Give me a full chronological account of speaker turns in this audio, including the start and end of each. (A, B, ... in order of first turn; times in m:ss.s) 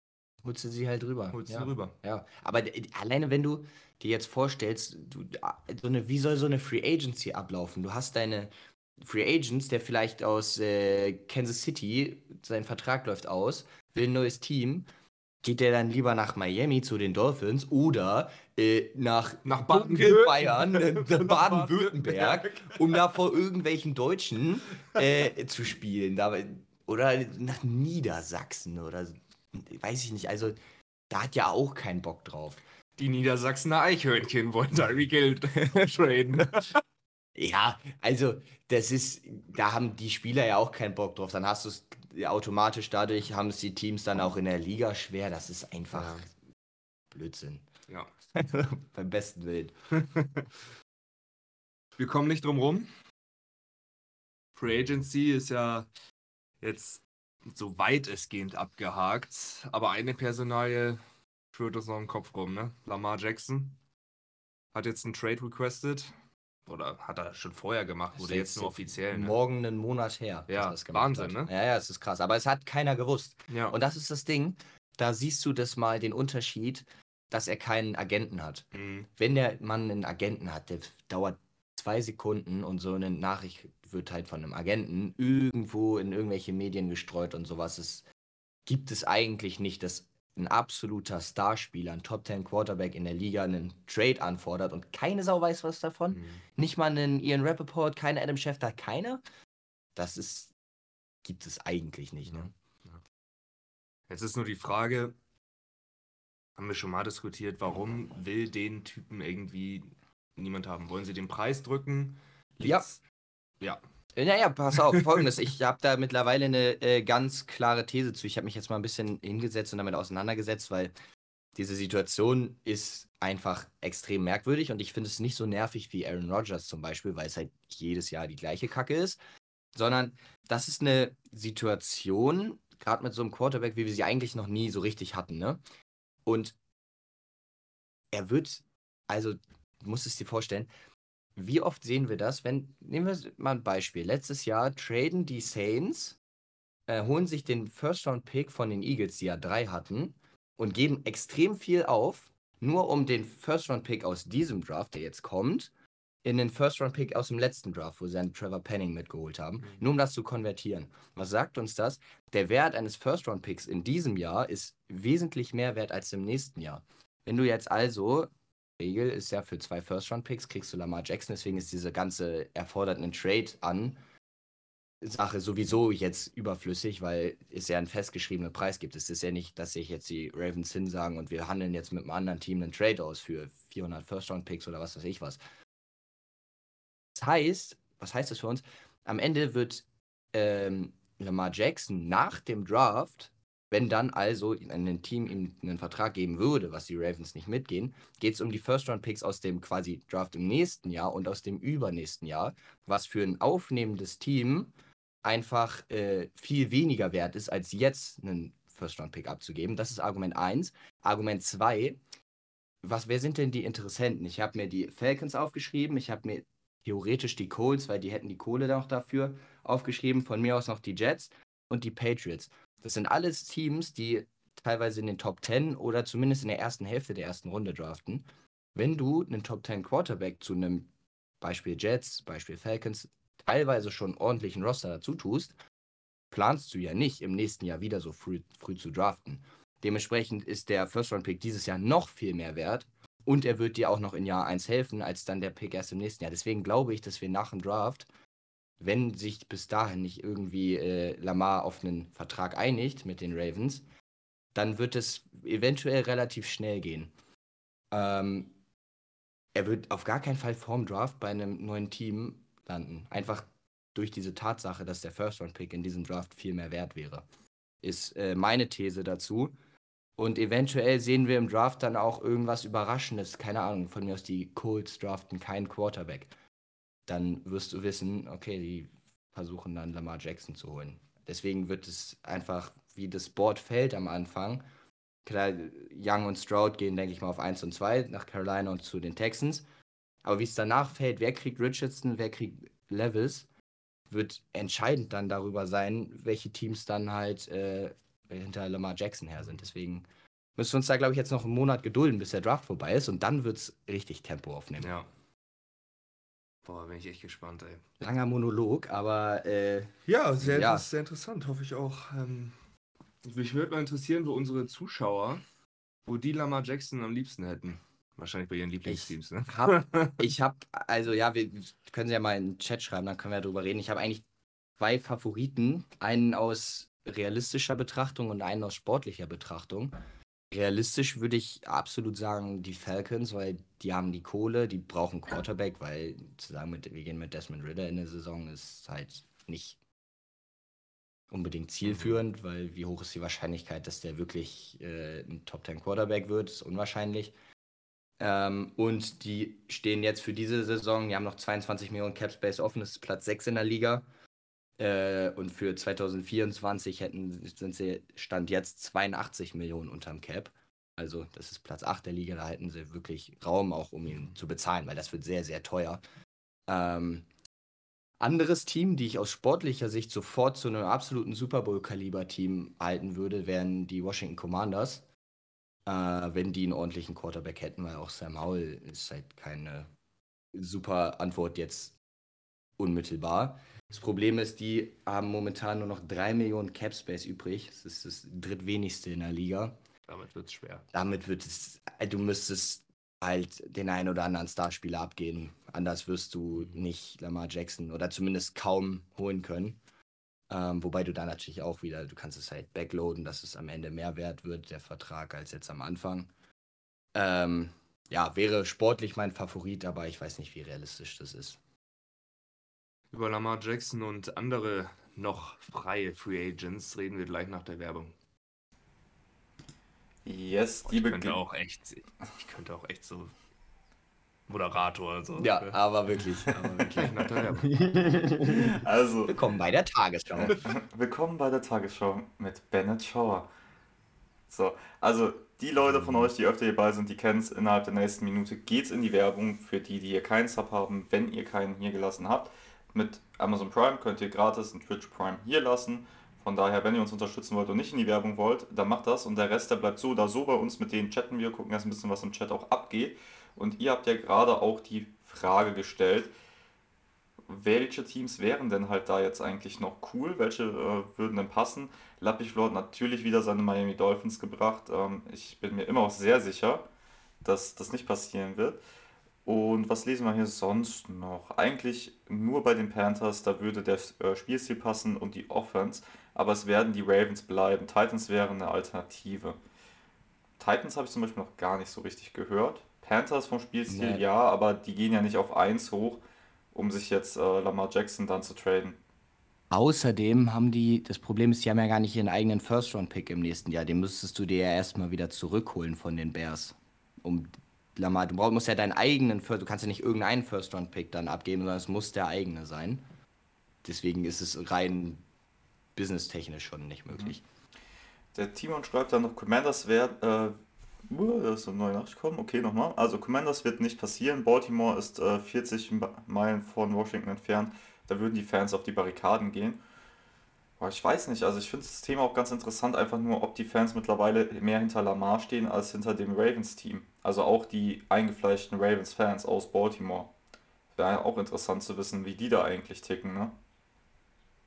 0:00.4-0:14.8 A
0:01.3-0:01.9 B
0:15.4-0:30.6 A
0:19.4-0:23.1 B
0:31.1-0:32.6 A
0:33.0-0:36.8 B
0:37.3-0:46.3 A
0:45.9-0:46.3 B
0:47.1-0:47.7 A
0:48.3-0:49.7 A
0:50.0-0:50.4 B
0:52.0-0:52.9 B
0:54.6-0:55.9 B
0:56.6-1:01.0 B
1:01.5-1:03.8 B
1:04.7-1:06.2 B
1:06.7-1:09.4 B
1:08.2-1:28.0 A
1:10.5-1:11.5 B
1:13.5-1:13.8 B
1:18.7-1:19.1 B
1:28.6-1:39.2 A
1:36.1-1:36.4 B
1:39.9-1:40.5 A
1:41.2-1:42.5 A
1:42.3-1:43.0 B
1:44.1-1:45.2 B
1:46.6-1:53.0 B
1:54.2-2:00.9 A
2:01.5-2:09.2 A
2:09.7-2:15.6 A
2:16.2-2:16.6 A
2:18.1-2:20.7 A
2:21.4-2:26.2 A
2:26.9-2:35.7 A
2:36.2-2:54.0 A
2:55.0-3:05.4 A
3:07.1-3:24.7 A
3:25.2-3:32.0 A
3:32.8-3:50.9 A
3:51.4-3:55.5 A
3:56.3-4:08.1 A
4:08.8-4:13.8 A
4:14.5-4:17.1 A
4:17.9-4:18.5 A
4:19.5-4:27.2 A
4:27.8-4:29.5 A
4:30.2-4:36.3 A
4:37.1-4:44.6 A
4:45.2-4:49.6 A
4:50.2-4:53.5 A
4:54.1-5:00.0 A
5:00.6-5:04.9 A
5:04.8-5:05.1 B
5:06.6-5:07.8 B
5:08.0-5:10.8 A
5:10.0-5:12.6 B
5:13.2-5:15.4 B
5:16.0-5:20.3 B
5:18.8-5:24.2 A
5:24.8-5:30.0 A
5:30.5-5:39.8 A
5:41.3-5:47.3 A
5:41.9-5:42.2 B
5:48.2-5:54.0 A
5:54.8-6:06.0 A
6:06.7-6:07.2 A
6:08.2-6:15.0 A
6:15.8-6:19.9 A
6:20.5-6:21.9 A
6:22.8-6:29.8 A
6:30.1-6:30.8 B
6:30.9-6:39.8 A
6:40.5-6:46.3 A
6:47.1-6:51.6 A
6:53.1-6:58.1 B
7:00.2-7:01.4 C
7:00.9-7:03.3 B
7:04.5-7:05.8 B
7:05.4-7:10.6 A
7:06.9-7:07.9 B
7:08.6-7:09.3 C
7:10.5-7:13.5 C
7:14.5-7:36.3 C
7:37.5-7:46.8 C
7:47.4-7:48.8 C
7:49.4-7:59.6 C
8:00.6-8:06.2 C
8:03.9-8:04.2 A
8:06.7-8:09.0 C
8:09.7-8:23.0 A
8:23.8-8:25.2 A
8:25.9-8:27.4 A
8:28.3-8:30.6 C
8:31.1-8:39.8 C
8:40.8-8:50.3 C
8:50.9-8:53.6 C